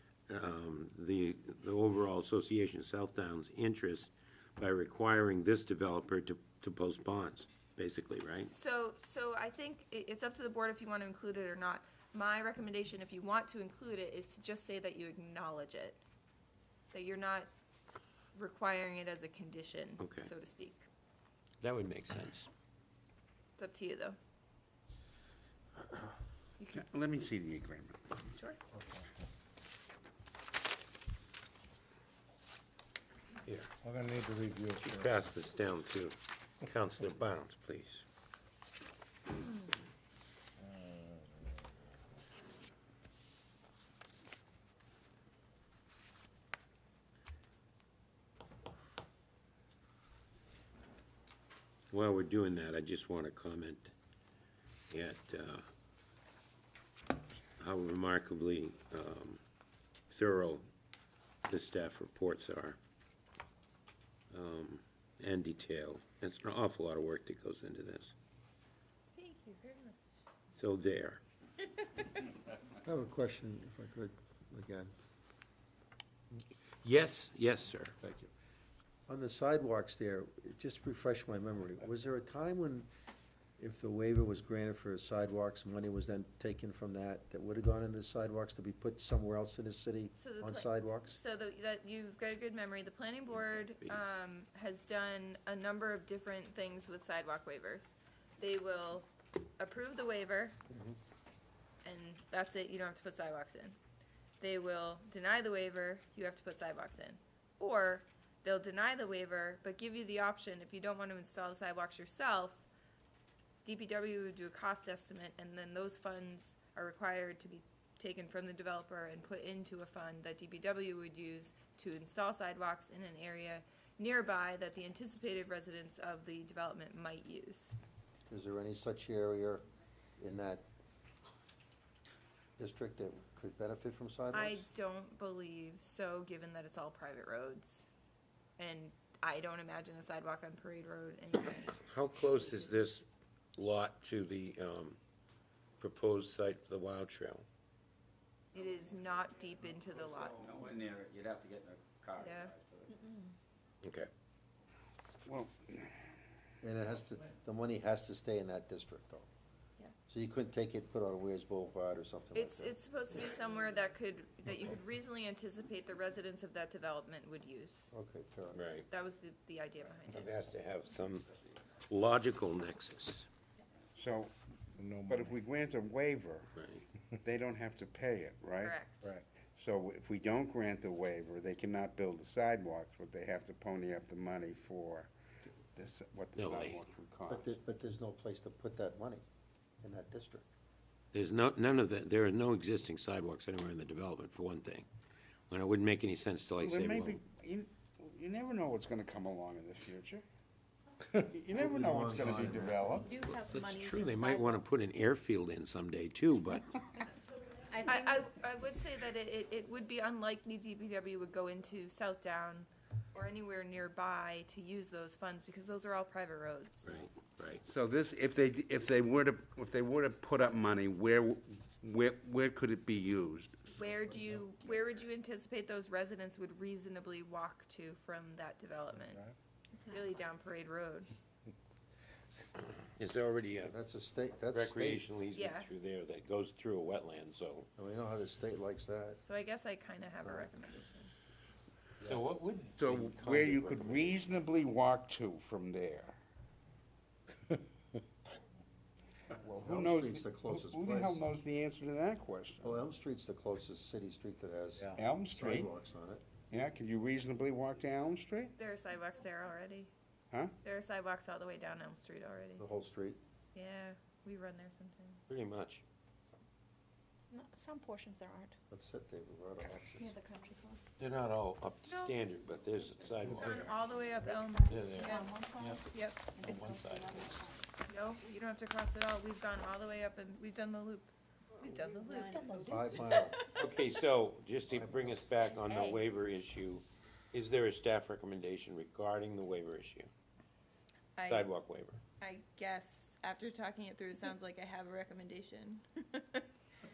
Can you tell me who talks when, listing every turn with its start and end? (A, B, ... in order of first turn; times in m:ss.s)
0:00.3-0:08.5 A
0:08.4-0:16.0 B
0:16.9-0:17.5 B
0:18.3-0:20.9 B
0:20.0-0:20.3 A
0:21.6-0:22.5 A
0:23.6-0:24.2 B
0:26.6-0:26.9 B
0:26.7-0:28.1 C
0:33.5-0:33.7 A
0:33.9-0:34.2 C
0:34.8-0:38.0 A
0:51.9-0:53.9 A
0:54.9-0:55.6 A
0:57.6-0:59.4 A
1:00.1-1:00.7 A
1:01.5-1:02.8 A
1:04.3-1:08.2 A
1:09.2-1:10.0 B
1:10.5-1:11.2 A
1:12.8-1:14.9 D
1:16.8-1:18.0 A
1:18.0-1:18.3 D
1:19.1-1:22.9 D
1:23.6-1:31.2 D
1:30.2-1:39.1 B
1:39.6-1:40.6 B
1:40.7-1:41.0 D
1:41.8-1:43.8 B
1:44.4-1:52.7 B
1:53.6-2:07.8 B
2:08.3-2:09.6 D
2:10.2-2:10.6 D
2:12.6-2:14.6 D
2:14.3-2:17.9 B
2:18.6-2:21.8 B
2:21.8-2:25.0 A
2:25.8-2:27.5 A
2:28.5-2:30.5 B
2:30.0-2:32.9 E
2:32.2-2:32.5 B
2:32.9-2:33.3 F
2:33.8-2:34.1 A
2:35.3-2:36.0 C
2:36.6-2:39.3 D
2:40.1-2:42.8 D
2:42.4-2:47.9 B
2:47.9-2:48.7 D
2:48.5-2:48.9 A
2:48.9-2:50.3 B
2:50.1-2:53.3 A
2:54.0-2:54.3 C
2:55.1-2:56.5 C
2:56.6-2:56.9 A
2:57.2-2:58.9 C
2:58.6-2:59.1 B
2:59.4-3:05.1 C
3:05.7-3:07.6 C
3:06.4-3:06.8 A
3:07.3-3:09.2 D
3:09.8-3:10.5 D
3:11.1-3:14.9 A
3:15.5-3:17.2 A
3:16.6-3:20.2 C
3:21.1-3:23.1 C
3:21.5-3:23.1 D
3:23.0-3:24.6 F
3:23.3-3:26.8 A
3:27.7-3:28.3 F
3:27.8-3:36.9 B
3:36.8-3:37.6 A
3:37.6-3:43.8 C
3:43.8-3:49.3 B
3:49.8-3:50.0 F
3:49.9-3:51.1 B
3:53.0-3:53.8 A
3:53.7-3:55.0 D
3:54.5-3:57.7 A
3:55.4-3:55.7 B
3:57.8-3:59.2 D
3:59.2-4:01.1 B
4:00.2-4:00.5 D
4:02.0-4:04.2 A
4:02.8-4:06.2 C
4:09.3-4:12.8 C
4:09.6-4:11.2 D
4:12.6-4:16.2 D
4:14.9-4:15.7 C
4:16.5-4:18.5 C
4:18.6-4:19.9 B
4:20.6-4:22.6 B
4:22.6-4:23.2 D
4:23.5-4:25.2 B
4:25.3-4:25.8 A
4:27.3-4:28.6 F
4:28.7-4:30.1 D
4:29.9-4:30.8 F
4:31.0-4:33.8 A
4:31.9-4:32.2 B
4:33.2-4:36.5 B
4:34.2-4:37.7 F
4:34.7-4:35.8 A
4:36.4-4:37.5 A
4:37.9-4:43.3 B
4:42.0-4:43.4 F
4:42.6-4:43.4 D
4:43.6-4:50.1 A
4:44.7-4:45.2 D
4:45.7-4:46.0 B
4:51.2-4:51.5 B
4:51.2-4:52.0 A
4:52.2-4:56.5 B